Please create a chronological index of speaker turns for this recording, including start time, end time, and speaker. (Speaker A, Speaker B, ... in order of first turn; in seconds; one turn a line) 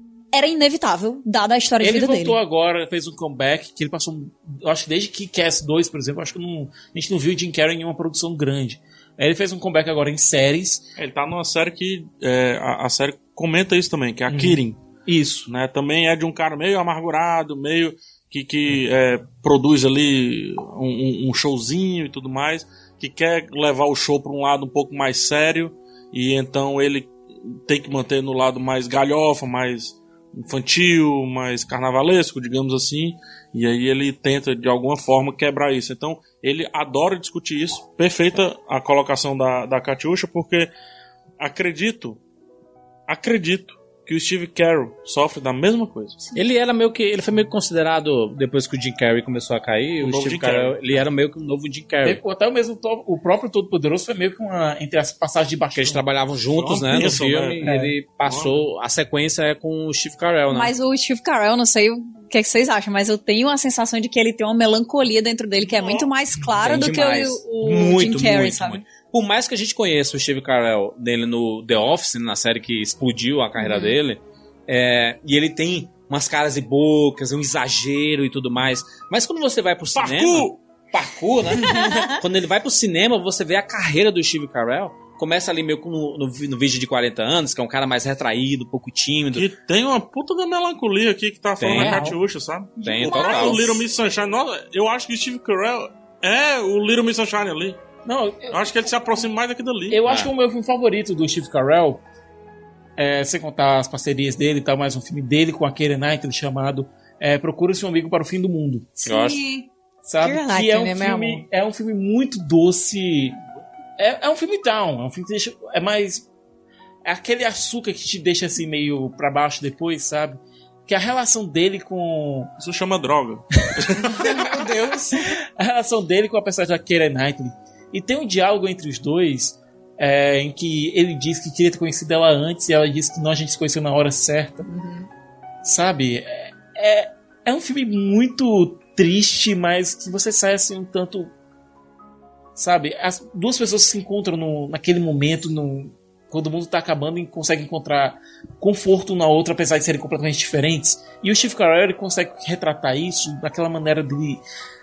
Speaker A: 0.3-2.4
Speaker B: 1.8-10.8
Speaker C: 11.0-14.8
Speaker B: 14.3-15.5
Speaker C: 15.5-40.7
Speaker C: 41.4-42.2
Speaker C: 43.1-46.2
Speaker D: 46.3-52.2
Speaker C: 50.0-51.0
Speaker B: 52.0-56.0
Speaker D: 55.8-60.7
Speaker C: 56.5-57.7
Speaker B: 57.6-57.9
Speaker C: 58.2-58.7
Speaker A: 60.5-68.8
Speaker C: 65.6-66.1
Speaker D: 66.6-89.5
Speaker E: 73.6-73.9
Speaker C: 79.9-80.6
Speaker C: 89.3-97.8
Speaker D: 91.6-92.2
Speaker B: 91.7-92.2
Speaker D: 92.8-93.8
Speaker A: 93.0-93.7
Speaker B: 98.0-98.8
Speaker C: 98.5-100.0
Speaker B: 99.9-102.0
Speaker D: 100.1-100.3
Speaker B: 103.0-109.0
Speaker A: 109.0-109.7
Speaker D: 109.1-109.4
Speaker B: 110.0-113.4
Speaker E: 110.2-111.4
Speaker B: 114.0-116.3
Speaker B: 117.0-122.5
Speaker C: 122.6-124.4
Speaker E: 124.2-125.3
Speaker B: 125.2-134.7
Speaker E: 134.7-135.1
Speaker B: 135.6-141.3
Speaker B: 142.6-154.4